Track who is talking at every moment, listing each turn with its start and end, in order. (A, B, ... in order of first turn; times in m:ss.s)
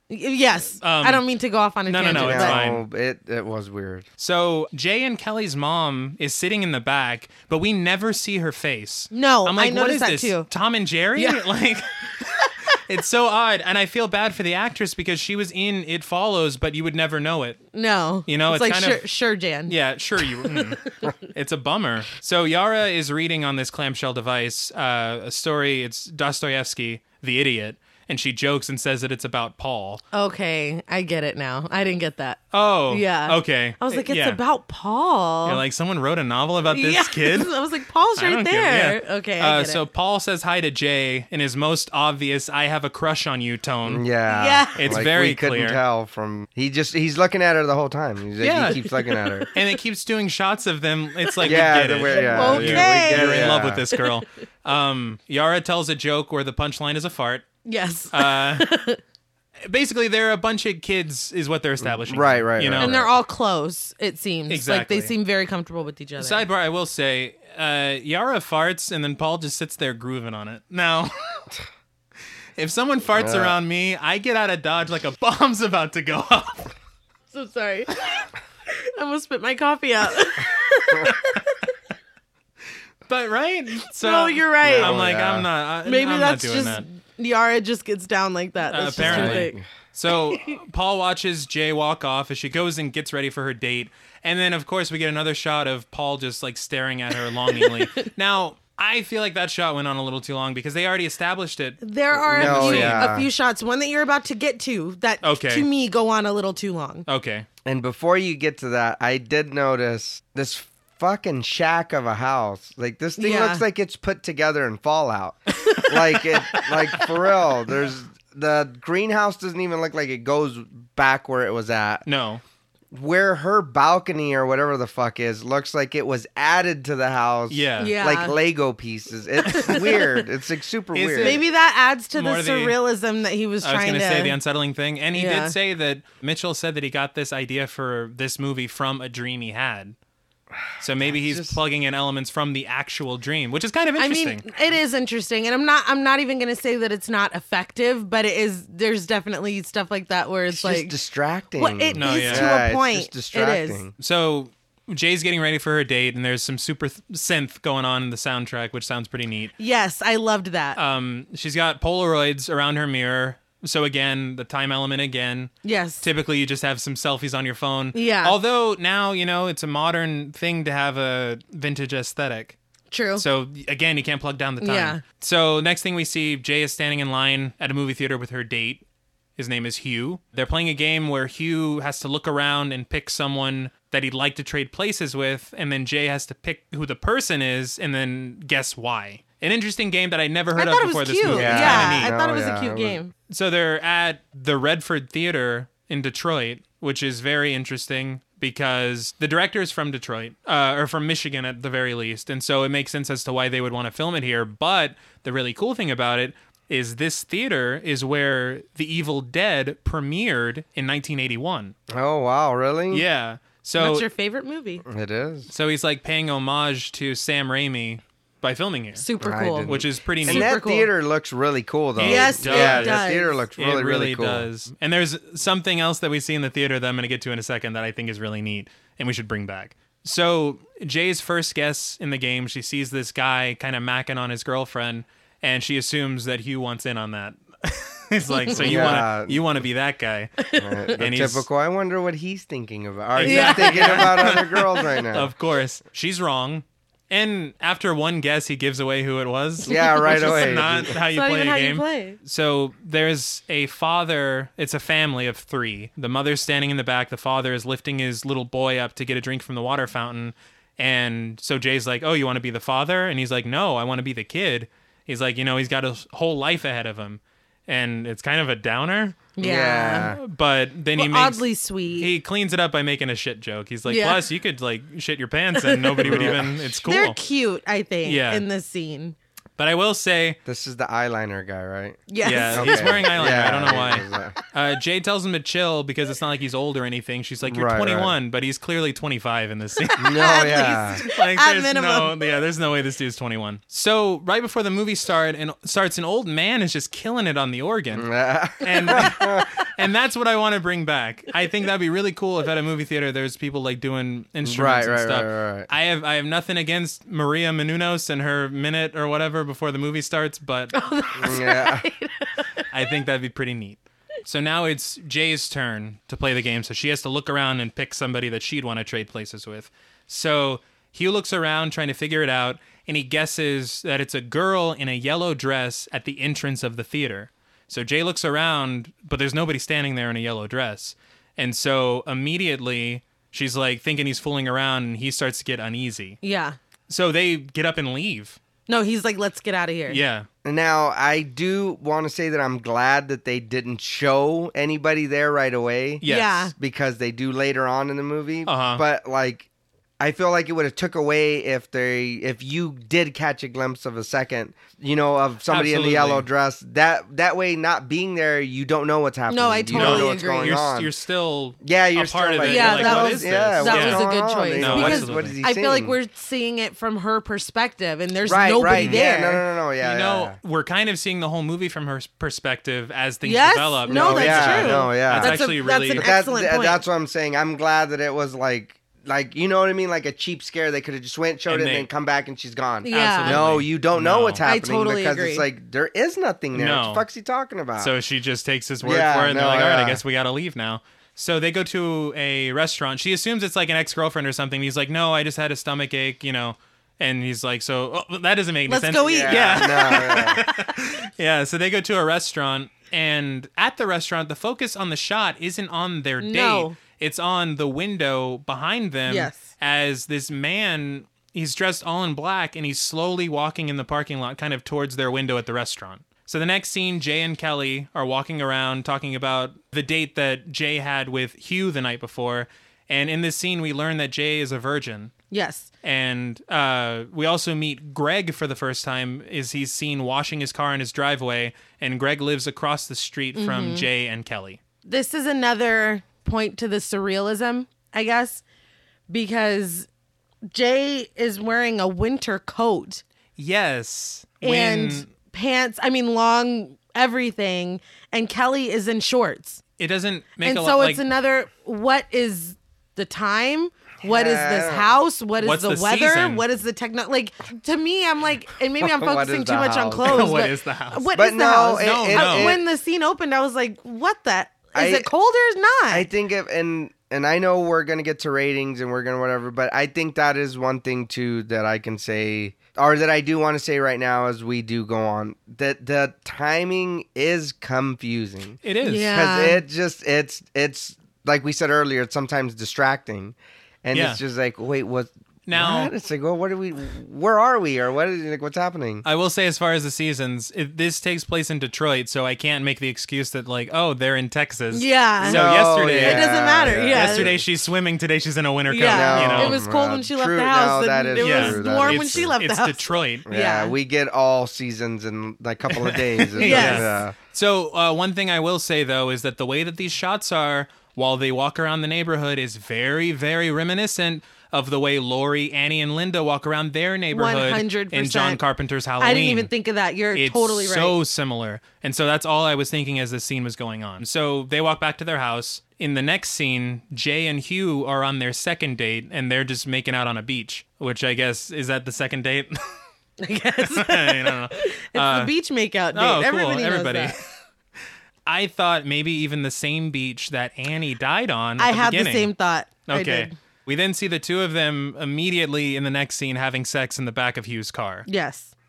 0:00.1-0:02.6 A
0:00.8-0:01.2 B
0:01.9-0:02.8 B
0:02.1-0:04.1 C
0:04.2-0:17.6 B
0:09.1-0:10.5 A
0:11.2-0:11.4 A
0:17.7-0:21.1 A
0:18.3-0:19.0 B
0:19.7-0:30.0 B
0:30.1-0:35.6 A
0:32.5-0:34.4 B
0:35.4-0:37.6 B
0:36.7-0:39.8 A
0:38.2-0:44.0 B
0:43.9-0:49.5 C
0:44.3-0:45.0 A
0:44.8-0:45.8 B
0:48.4-0:48.8 B
0:49.0-0:49.5 A
0:49.5-0:57.5 B
0:51.2-0:54.2 A
0:51.4-0:53.9 C
0:57.6-0:59.0 A
0:58.1-0:58.7 B
0:59.6-1:03.0 B
1:01.8-1:03.1 C
1:02.8-1:06.4 A
1:04.5-1:05.1 B
1:06.2-1:11.2 B
1:12.6-1:16.7 B
1:13.2-1:13.6 C
1:17.3-1:21.6 A
1:23.1-1:26.8 B
1:23.9-1:25.0 A
1:24.6-1:25.5 C
1:25.8-1:29.6 A
1:28.7-1:43.1 B
1:29.0-1:29.7 C
1:30.3-1:30.6 A
1:37.5-1:38.1 A
1:41.8-1:47.1 A
1:42.2-1:43.3 C
1:45.2-1:45.7 B
1:47.1-1:47.5 B
1:47.7-2:02.0 C
1:53.2-1:53.6 A
1:55.6-1:56.7 A
2:02.1-2:02.4 B
2:02.9-2:11.4 C
2:07.5-2:08.0 B
2:07.8-2:08.4 A
2:09.4-2:10.2 A
2:10.9-2:11.4 B
2:11.2-2:14.4 A
2:12.1-2:12.8 B
2:13.6-2:20.0 B
2:15.1-2:15.6 A
2:20.8-2:24.4 B
2:21.0-2:21.6 C
2:24.0-2:30.9 A
2:30.5-2:34.0 C
2:31.6-2:33.8 A
2:32.0-2:32.5 B
2:34.0-2:39.5 B
2:39.6-2:40.8 A
2:40.8-2:52.6 B
2:45.6-2:46.0 A
2:47.9-2:48.4 A
2:52.9-2:53.2 A
2:53.2-2:58.8 B
2:54.6-2:55.0 A
2:59.4-3:12.2 B
3:10.6-3:13.1 A
3:11.3-3:13.0 C
3:13.3-3:31.7 B
3:31.9-3:33.0 C
3:32.9-3:34.1 B
3:33.8-3:34.8 A
3:34.8-3:35.5 C
3:35.5-3:39.1 B
3:39.0-3:40.9 A
3:39.2-3:44.5 C
3:39.6-3:40.5 B
3:42.0-4:00.4 B
3:42.0-3:43.4 A
3:58.3-3:58.8 A
3:58.5-3:59.4 C
4:00.4-4:01.0 A
4:00.6-4:05.3 C
4:01.0-4:01.5 B
4:03.2-4:29.4 B
4:03.2-4:04.3 A
4:09.6-4:12.2 A
4:09.7-4:11.0 C
4:29.4-4:30.2 A
4:29.4-4:30.2 C
4:30.0-4:31.4 B
4:31.0-4:32.1 A
4:32.0-4:37.2 B
4:33.9-4:34.2 A
4:35.6-4:39.2 A
4:36.0-4:36.5 C
4:38.0-4:38.4 B
4:39.6-4:40.4 B
4:40.4-4:44.4 C
4:42.1-4:43.2 A
4:42.2-4:50.1 B
4:47.4-4:48.1 C
4:49.9-4:52.2 A
4:50.0-4:51.0 C
4:51.0-4:58.1 B
4:57.9-4:59.5 C
4:58.6-5:10.7 B
5:04.4-5:05.7 C
5:10.7-5:12.7 A
5:11.2-5:11.8 C
5:12.7-5:36.2 B
5:36.2-5:36.6 A
5:36.9-5:38.4 B
5:38.7-5:40.0 A
5:39.9-5:40.3 B
5:40.4-5:49.5 C
5:46.0-5:46.5 B
5:46.1-5:46.5 A
5:48.5-5:48.8 B
5:50.0-6:00.9 C
5:55.5-5:56.3 B
5:59.3-6:00.6 A
5:59.7-6:05.4 B
6:01.6-6:06.0 C
6:02.4-6:09.4 A
6:08.2-6:10.4 C
6:08.7-6:09.0 B
6:09.8-6:16.1 B
6:13.2-6:16.8 A
6:13.9-6:27.9 C
6:21.5-6:21.9 B
6:22.8-6:23.4 A
6:22.9-6:24.4 B
6:24.4-6:25.5 A
6:26.5-6:27.0 B
6:27.8-7:05.1 B
6:28.8-6:30.0 C
6:38.7-6:40.5 A
6:38.9-6:40.4 C
6:46.2-6:46.8 A
6:49.1-6:49.4 A
7:05.3-7:05.7 A
7:05.8-7:14.6 B
7:13.4-7:13.9 A
7:14.9-7:18.4 A
7:19.1-7:19.9 A
7:20.5-7:23.0 A
7:23.4-7:25.1 B
7:24.4-7:29.6 A
7:29.8-7:31.0 B
7:30.4-7:46.1 A
7:34.0-7:34.9 C
7:35.4-7:36.4 B
7:38.8-7:40.3 C
7:40.0-7:41.1 B
7:41.1-7:42.6 C
7:41.8-7:42.6 B
7:44.8-7:45.1 C
7:45.9-8:09.0 C
7:58.6-7:59.1 B
7:58.8-7:59.6 A
8:03.9-8:04.2 B
8:05.5-8:05.9 B
8:09.0-8:19.6 B
8:14.7-8:17.3 A
8:15.2-8:17.4 C
8:18.7-8:23.7 A
8:18.8-8:22.4 C
8:21.2-8:23.2 B
8:23.3-8:27.2 C
8:25.7-8:39.5 B
8:26.4-8:27.0 A
8:37.1-8:38.4 A
8:39.0-8:41.0 A
8:40.2-8:52.6 B
8:53.2-8:57.2 A
8:53.6-8:55.3 B
8:55.9-8:57.3 B
8:58.3-9:02.3 B
9:01.6-9:03.3 A
9:02.9-9:08.1 B
9:08.1-9:08.5 A